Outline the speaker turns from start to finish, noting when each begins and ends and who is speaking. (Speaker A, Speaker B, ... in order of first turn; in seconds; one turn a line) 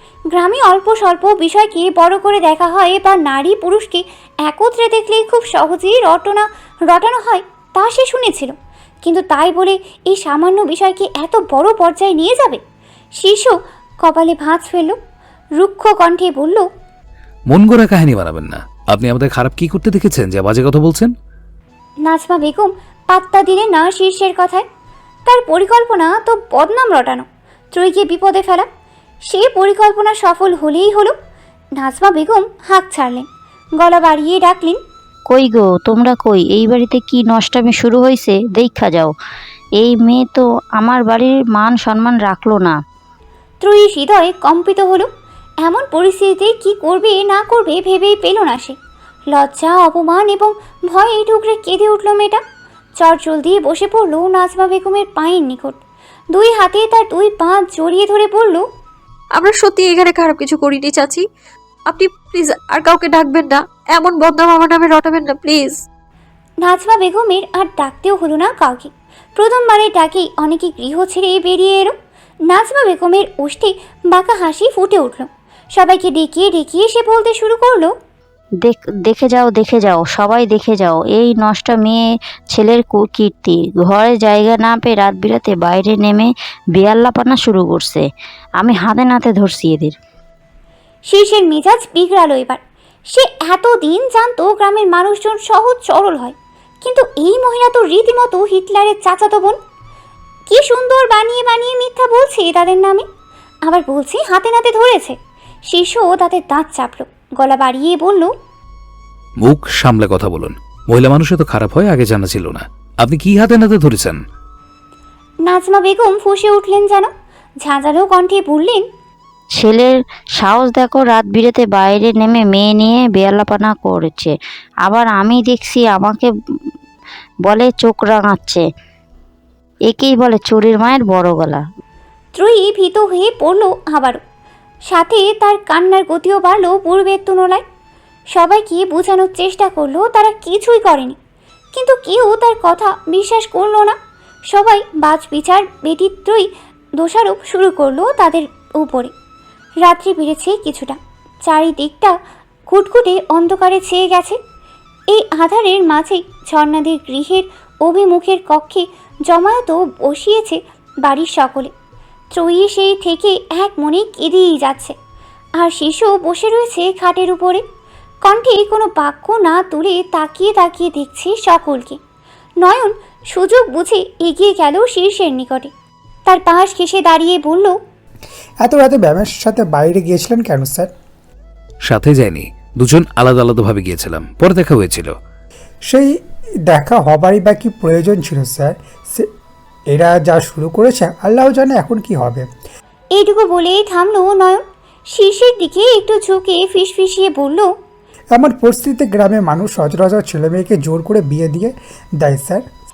Speaker A: 0.3-8.5
Speaker A: 9.1-12.6
Speaker A: 13.2-15.0
Speaker A: 15.6-16.7
Speaker B: 17.5-21.1
Speaker A: 22.1-24.7
Speaker A: 25.3-28.7
Speaker A: 29.3-31.1
Speaker A: 31.8-33.2
Speaker A: 33.8-34.8
Speaker C: 35.3-39.1
Speaker C: 39.8-42.8
Speaker A: 43.6-45.1
Speaker A: 45.6-48.8
Speaker A: 49.3-52.4
Speaker A: 53.0-55.8
Speaker A: 56.3-58.6
Speaker D: 59.4-61.2
Speaker D: 61.9-65.8
Speaker A: 66.6-71.9
Speaker A: 72.5-77.9
Speaker C: 78.6-88.1
Speaker C: 88.6-90.0
Speaker A: 91.1-99.6
Speaker A: 100.5-103.0
Speaker A: 103.7-105.2
Speaker A: 105.7-108.3
Speaker B: 109.4-114.2
Speaker A: 115.5-117.1
Speaker A: 117.6-118.8
Speaker C: 119.5-124.3
Speaker C: 124.9-126.3
Speaker C: 127.5-128.7
Speaker C: 129.9-131.7
Speaker A: 132.3-134.2
Speaker A: 134.9-137.6
Speaker A: 138.3-141.2
Speaker A: 141.7-144.0
Speaker A: 144.5-149.1
Speaker A: 149.8-152.2
Speaker A: 152.7-154.4
Speaker A: 155.1-161.7
Speaker A: 162.3-164.9
Speaker A: 165.6-167.6
Speaker A: 168.2-172.0
Speaker A: 172.6-175.7
Speaker A: 176.3-177.8
Speaker E: 178.6-180.9
Speaker B: 181.9-185.1
Speaker E: 185.9-186.1
Speaker E: 186.7-189.3
Speaker E: 189.9-192.5
Speaker A: 193.2-197.7
Speaker E: 198.3-202.7